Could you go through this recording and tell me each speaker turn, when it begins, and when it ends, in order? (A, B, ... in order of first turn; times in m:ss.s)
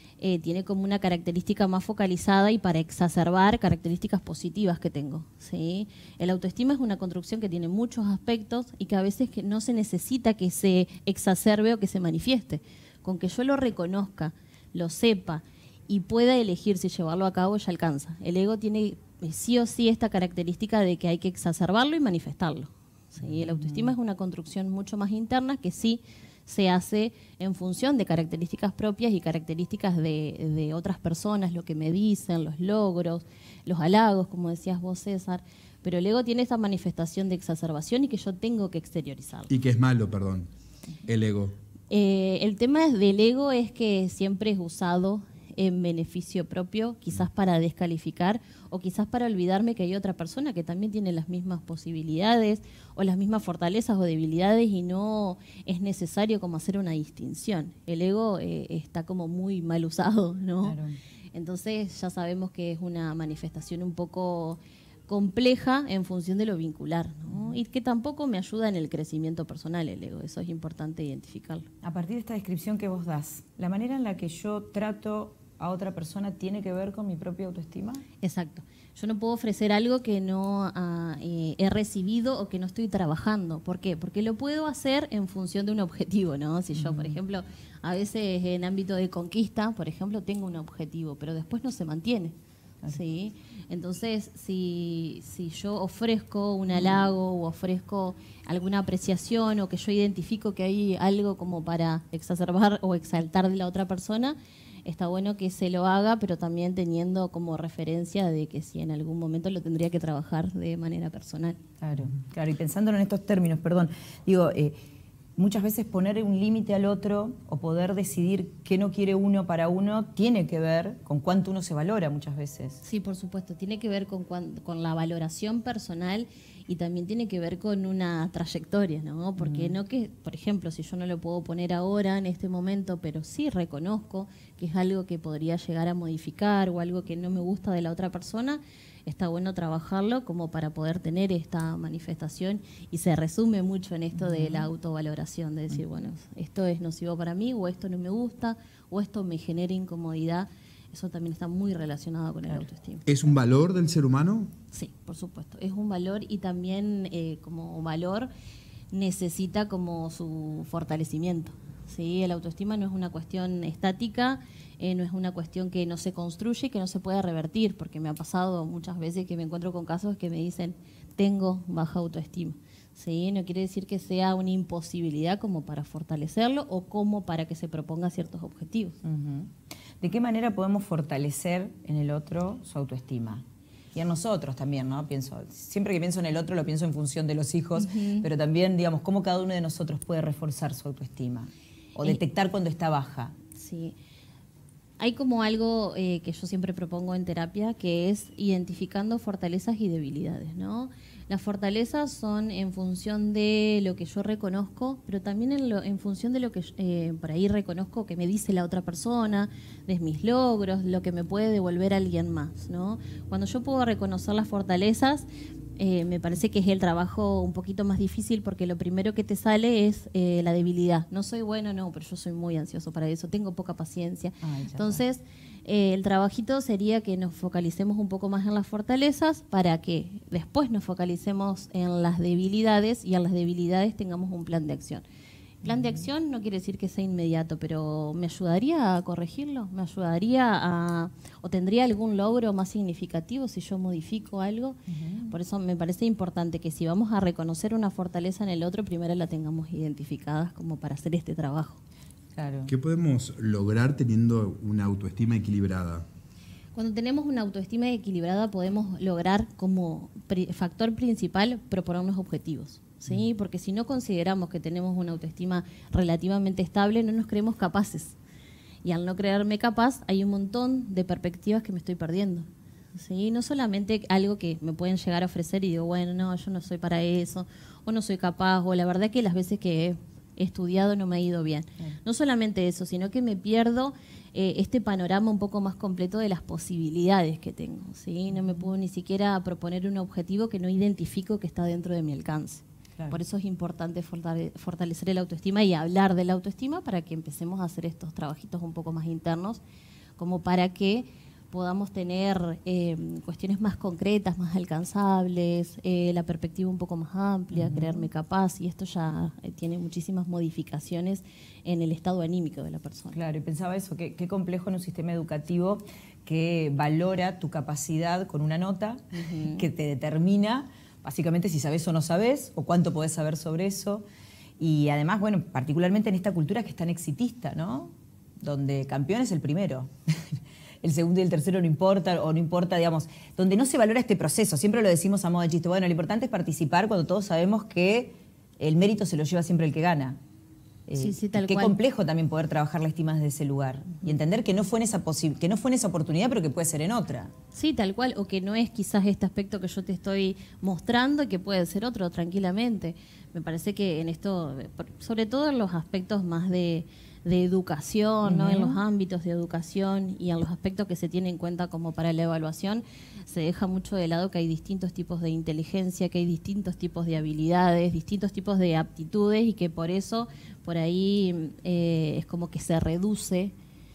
0:00.2-0:39.5 A
0:23.2-0:23.9 B
0:39.5-0:40.5 C
0:41.1-0:41.6 C
0:41.9-1:00.8 A
1:00.6-1:01.0 B
1:01.3-1:11.7 A
1:07.3-1:07.6 B
1:11.8-1:18.0 B
1:18.2-1:32.4 A
1:26.7-1:27.2 B
1:32.9-1:51.6 A
1:36.7-1:37.0 B
1:51.8-1:54.8 B
1:55.4-2:02.8 B
2:02.8-2:33.1 A
2:09.4-2:09.8 B
2:24.1-2:24.7 B
2:33.1-2:34.5 C
2:34.7-2:38.3 A
2:38.9-2:59.0 A
2:59.0-3:13.4 B
3:07.8-3:08.3 A
3:13.6-3:14.0 A
3:15.0-3:35.2 A
3:35.8-3:55.0 A
3:44.4-3:45.0 B
3:55.6-4:11.8 A
3:55.6-3:56.1 B
4:04.9-4:05.4 B
4:12.4-4:12.7 B
4:12.7-4:16.1 C
4:16.8-4:28.2 A
4:28.8-4:59.6 A
4:48.3-4:48.7 B
5:00.2-5:13.2 A
5:07.5-5:08.1 B
5:13.1-5:24.0 B
5:19.1-5:19.7 A
5:24.6-5:29.9 B
5:30.8-5:40.2 B
5:40.9-5:47.3 B
5:41.0-5:41.8 A
5:47.5-6:13.5 A
5:58.2-5:58.8 B